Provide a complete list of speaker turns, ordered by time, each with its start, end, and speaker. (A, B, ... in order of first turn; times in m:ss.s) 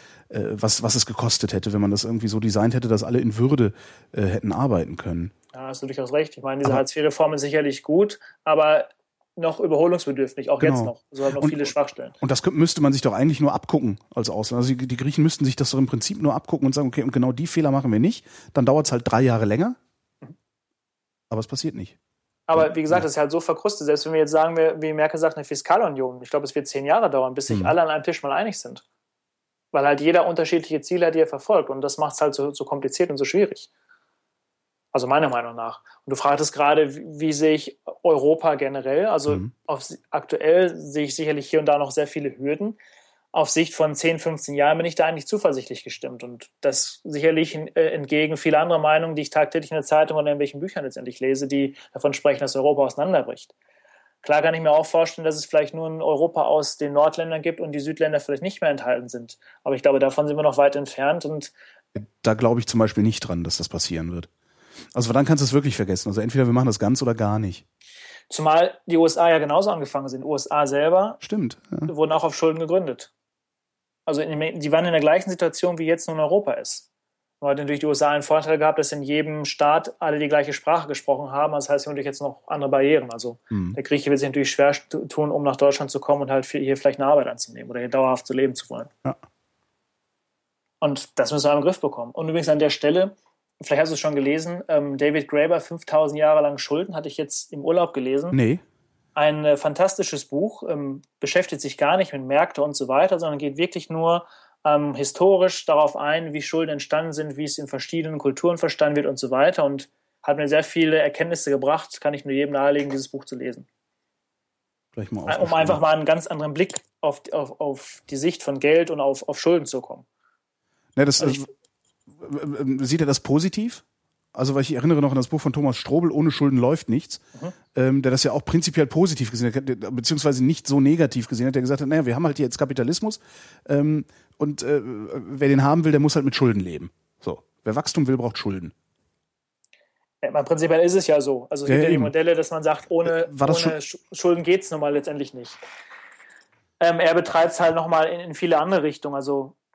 0:00.3-0:05.3 A
0:05.5-0:12.2 B
0:10.6-0:19.8 A
0:21.3-0:22.0 A
0:22.5-0:28.8 B
0:22.6-0:23.0 A
0:27.5-0:27.8 A
0:29.7-0:33.7 B
0:34.9-0:42.8 B
0:43.3-0:53.5 B
0:54.2-1:01.5 B
1:02.0-1:04.3 A
1:04.9-1:07.6 A
1:08.3-1:11.2 B
1:11.2-1:11.9 A
1:11.9-1:13.1 B
1:14.1-1:16.9 B
1:17.4-1:28.9 B
1:23.5-1:23.8 A
1:30.8-1:38.4 B
1:38.3-1:38.6 A
1:39.2-1:53.7 B
1:54.9-1:55.8 A
1:55.3-2:00.1 B
2:01.0-2:01.5 A
2:02.2-2:03.8 A
2:04.3-2:18.7 A
2:20.2-2:25.6 B
2:21.7-2:22.1 A
2:23.0-2:23.8 A
2:26.8-2:29.6 B